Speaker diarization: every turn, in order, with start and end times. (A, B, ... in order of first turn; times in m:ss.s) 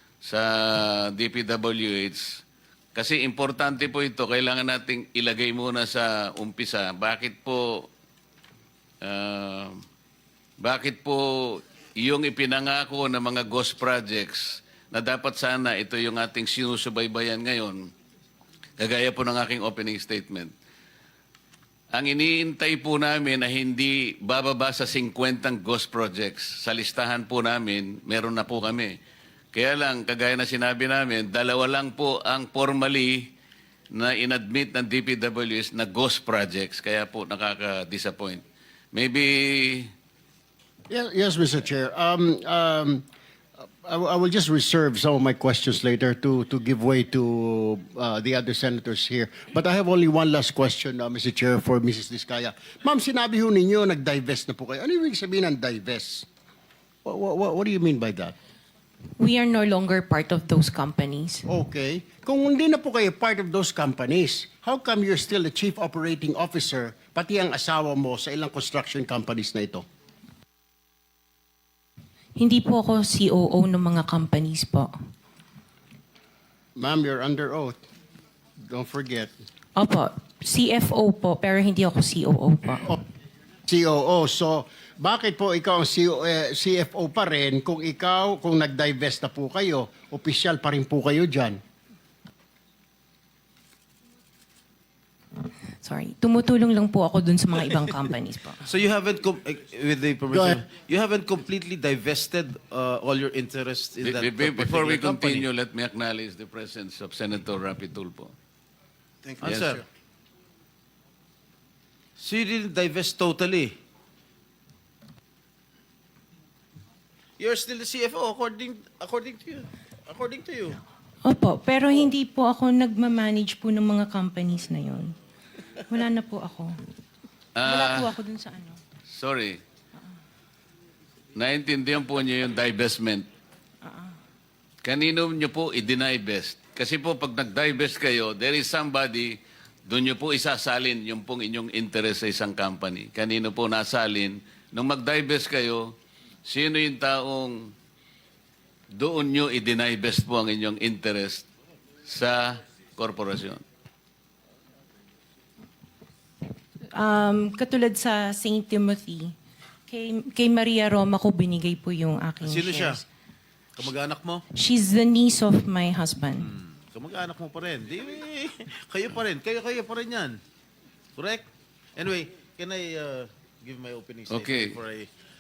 0:00.2-0:02.4 A
0:03.0-0:07.9 A
0:09.0-0:09.8 A
0:10.6-0:17.9 A
0:18.8-0:20.5 A
0:21.9-0:29.0 A
0:29.5-0:33.3 A
0:33.9-0:39.9 A
0:40.9-0:43.0 B
0:43.8-0:56.3 B
0:57.0-0:58.4 B
0:59.2-1:01.5 C
1:01.5-1:09.8 B
1:12.4-1:14.9 C
1:16.8-1:17.8 B
1:18.7-1:19.3 B
1:19.8-1:22.9 C
1:23.7-1:31.6 B
1:35.8-1:38.6 C
1:38.6-1:45.5 D
1:40.3-1:40.6 B
1:44.0-1:48.3 A
1:49.2-1:49.8 D
1:49.4-1:49.8 A
1:52.2-1:53.8 D
1:57.4-2:00.8 D
2:01.2-2:05.1 C
2:05.9-2:06.7 C
2:07.6-2:08.1 A
2:07.7-2:08.8 C
2:09.1-2:09.6 A
2:11.4-2:13.3 A
2:13.9-2:14.1 C
2:14.8-2:27.7 A
2:28.9-2:31.5 A
2:32.1-2:33.6 A
2:36.9-2:39.3 C
2:39.9-2:43.0 C
2:42.4-2:43.0 D
2:43.8-2:44.4 D
2:44.6-2:46.5 C
2:46.4-2:50.4 D
2:51.2-2:51.4 D
2:52.0-2:55.1 D
2:54.3-2:54.8 A